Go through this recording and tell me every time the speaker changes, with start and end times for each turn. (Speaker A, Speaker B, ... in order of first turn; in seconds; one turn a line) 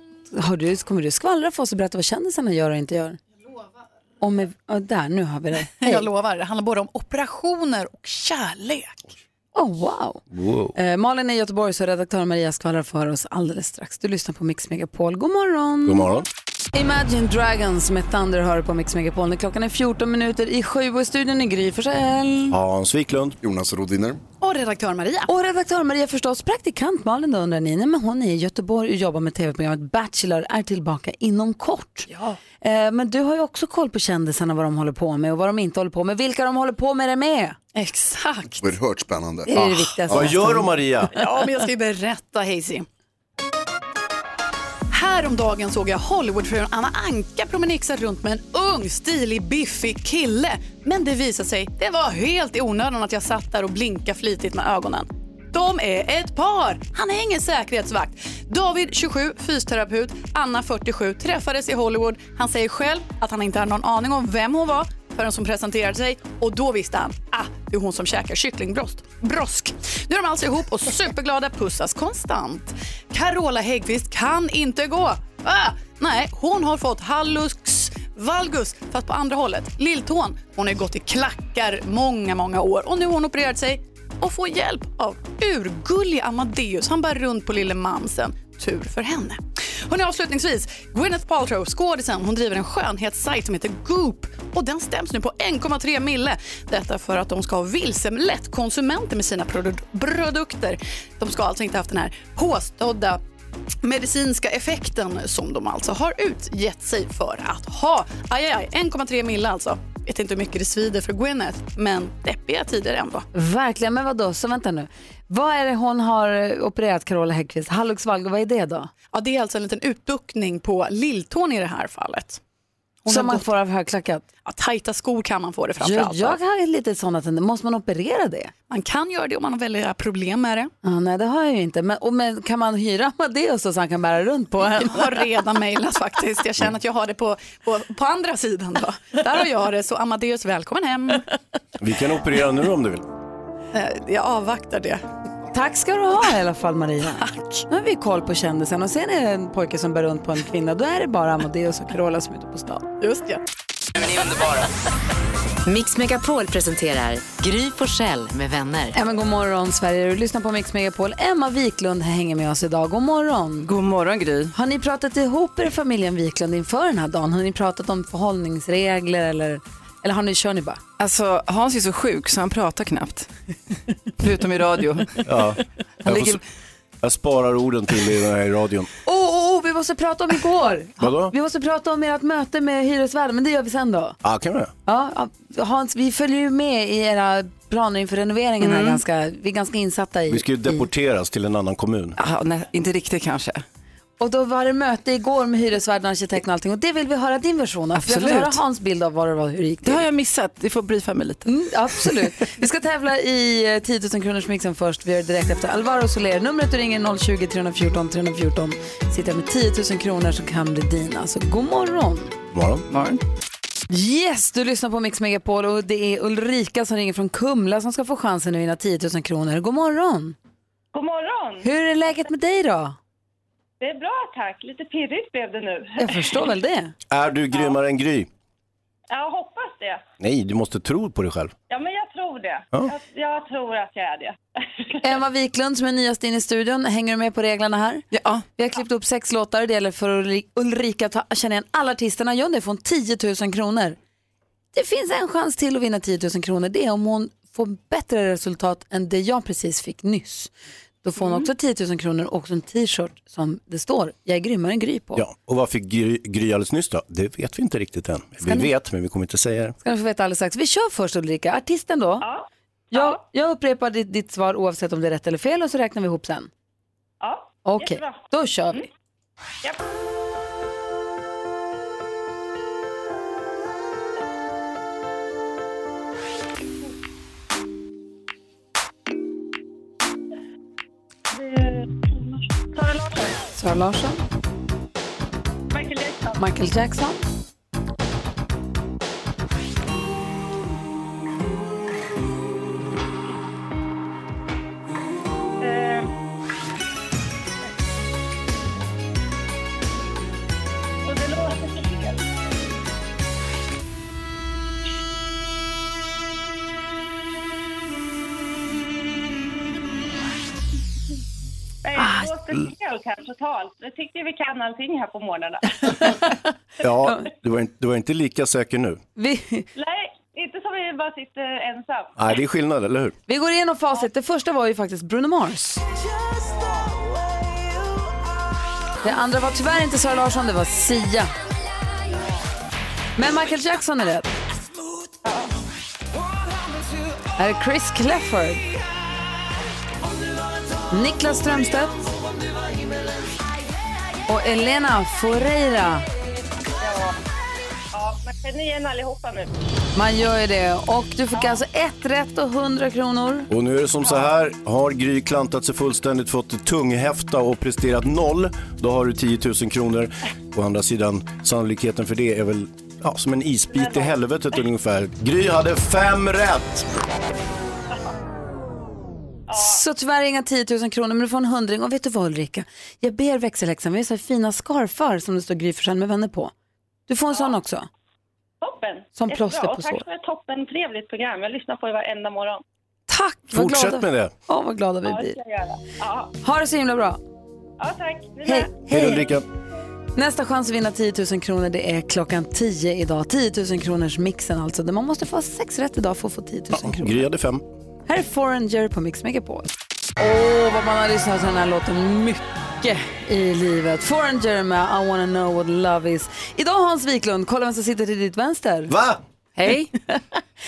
Speaker A: 0.3-3.2
Speaker A: 4.2-6.0
Speaker B: 5.8-9.0
Speaker A: 9.5-10.2
Speaker C: 10.3-10.7
Speaker A: 10.7-16.1
Speaker C: 15.8-16.2
Speaker A: 16.7-22.6
Speaker C: 22.5-23.4
Speaker D: 23.4-24.2
Speaker B: 24.4-25.3
Speaker A: 25.3-32.1
Speaker B: 32.1-32.4
Speaker A: 32.6-37.6
Speaker B: 37.7-38.6
Speaker D: 38.6-40.3
Speaker A: 39.5-41.2
Speaker C: 40.1-41.1
Speaker B: 41.1-42.9
Speaker B: 44.9-103.2
Speaker B: 103.8-113.2
Speaker A: 113.3-118.9
Speaker B: 119.1-122.4
Speaker B: 123.0-123.5
Speaker A: 123.1-124.2
Speaker B: 124.4-126.4
Speaker A: 125.8-128.5
Speaker B: 128.7-130.7
Speaker A: 130.8-135.2
Speaker B: 134.6-141.2
Speaker C: 141.8-143.1
Speaker B: 143.7-145.0
Speaker A: 145.5-152.8
Speaker B: 147.2-147.6
Speaker B: 153.0-153.4
Speaker E: 155.6-158.9
Speaker A: 158.9-163.7
Speaker F: 163.6-164.5
Speaker A: 164.5-170.8
Speaker F: 171.0-173.3
Speaker F: 174.2-175.2
Speaker C: 175.2-176.4
Speaker F: 176.0-176.4
Speaker C: 177.0-178.9
Speaker A: 179.0-184.2
Speaker C: 181.0-181.3
Speaker C: 184.2-184.7
Speaker A: 184.8-190.8
Speaker F: 188.6-189.0
Speaker C: 190.3-192.2
Speaker F: 192.2-193.6
Speaker A: 194.2-200.0
Speaker F: 197.9-198.6
Speaker F: 199.8-201.5
Speaker A: 201.4-212.3
Speaker C: 212.5-212.8
Speaker F: 212.9-213.2
Speaker A: 213.9-220.3
Speaker G: 220.9-221.7
Speaker A: 221.6-223.0
Speaker G: 223.8-226.5
Speaker A: 226.0-226.9
Speaker C: 227.1-228.3
Speaker G: 229.1-230.0
Speaker C: 230.2-231.5
Speaker G: 231.7-235.0
Speaker A: 235.0-244.0
Speaker F: 238.1-238.4
Speaker A: 244.7-250.5
Speaker A: 251.0-255.2
Speaker C: 255.2-259.8
Speaker A: 258.4-258.7
Speaker A: 259.8-262.2
Speaker G: 262.2-263.2
Speaker A: 262.9-266.5
Speaker G: 267.2-268.9
Speaker A: 267.6-268.8
Speaker G: 281.3-283.4
Speaker A: 283.5-284.2
Speaker G: 285.7-286.4
Speaker A: 286.4-287.2
Speaker G: 295.6-296.1
Speaker G: 301.0-302.3
Speaker G: 311.8-316.2
Speaker A: 312.0-312.3
Speaker A: 315.9-316.4
Speaker C: 316.8-319.0
Speaker A: 319.2-319.7
Speaker G: 319.7-322.1
Speaker C: 322.2-323.1
Speaker A: 323.3-325.8
Speaker A: 329.0-331.3
Speaker A: 333.1-334.3
Speaker G: 335.2-335.5
Speaker A: 337.4-338.7
Speaker A: 340.9-342.1
Speaker A: 344.3-346.0
Speaker G: 346.8-347.2
Speaker G: 347.9-349.5
Speaker A: 349.9-353.5
Speaker G: 351.3-351.6
Speaker C: 353.5-366.9
Speaker G: 363.7-364.2
Speaker G: 369.5-369.8
Speaker A: 369.5-376.5
Speaker A: 377.1-377.9
Speaker G: 378.6-382.6
Speaker A: 379.1-380.0
Speaker A: 383.1-385.3
Speaker C: 383.5-384.3
Speaker G: 385.0-386.4
Speaker A: 386.4-387.2
Speaker G: 387.8-388.8
Speaker A: 388.4-389.2
Speaker C: 388.9-389.4
Speaker A: 390.1-397.2
Speaker C: 396.7-397.6
Speaker A: 398.1-408.9
Speaker C: 408.9-409.2
Speaker F: 409.6-409.9